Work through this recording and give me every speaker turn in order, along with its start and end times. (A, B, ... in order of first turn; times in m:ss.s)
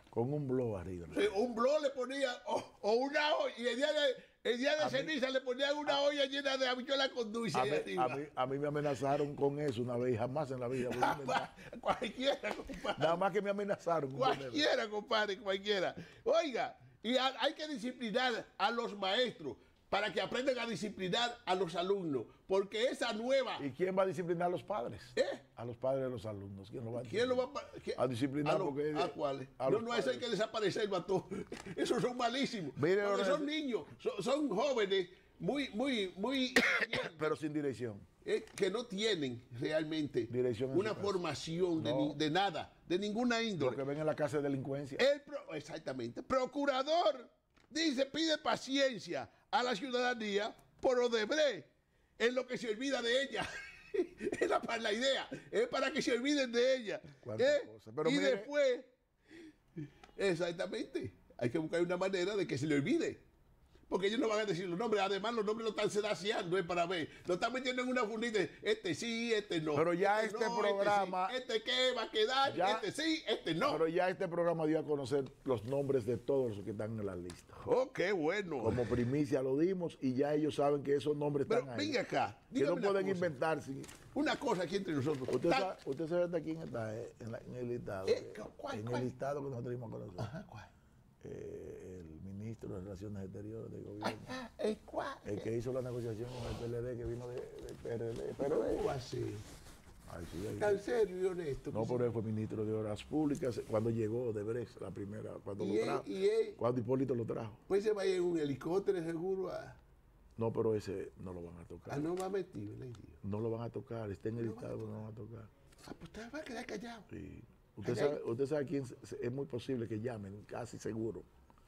0:00.1-0:01.3 A
0:01.1-0:08.3 B
0:04.8-0:05.2 A
0:07.5-0:11.5 A
0:10.8-0:13.2 B
0:13.0-0:14.7 A
0:14.1-0:23.7 B
0:23.6-0:30.3 A
0:25.2-0:25.4 B
0:26.9-0:37.4 B
0:32.8-0:33.5 A
0:36.6-0:38.1 A
0:38.2-0:43.8 B
0:40.3-0:41.2 A
0:41.8-0:42.2 A
0:43.6-0:45.0 A
0:45.0-0:58.9 B
0:57.2-0:58.5 A
1:00.2-1:03.2 B
1:03.9-1:13.8 B
1:09.7-1:11.4 A
1:12.5-1:12.9 A
1:13.6-1:17.6 A
1:17.6-1:18.9 B
1:18.6-1:22.0 A
1:21.5-1:23.4 B
1:22.6-1:23.9 A
1:24.1-1:25.8 B
1:25.3-1:30.3 A
1:28.0-1:29.1 B
1:30.2-1:30.7 B
1:31.2-1:34.4 A
1:34.0-1:35.5 B
1:35.2-1:38.8 A
1:38.4-1:39.4 B
1:40.1-1:40.8 A
1:40.6-1:42.1 B
1:41.7-1:47.6 A
1:45.6-1:46.6 B
1:47.7-1:49.8 B
1:50.4-1:52.1 A
1:51.9-1:53.2 B
1:53.2-1:55.5 A
1:54.4-1:55.0 B
1:55.8-1:57.1 B
1:57.1-2:01.3 A
1:57.8-1:58.2 B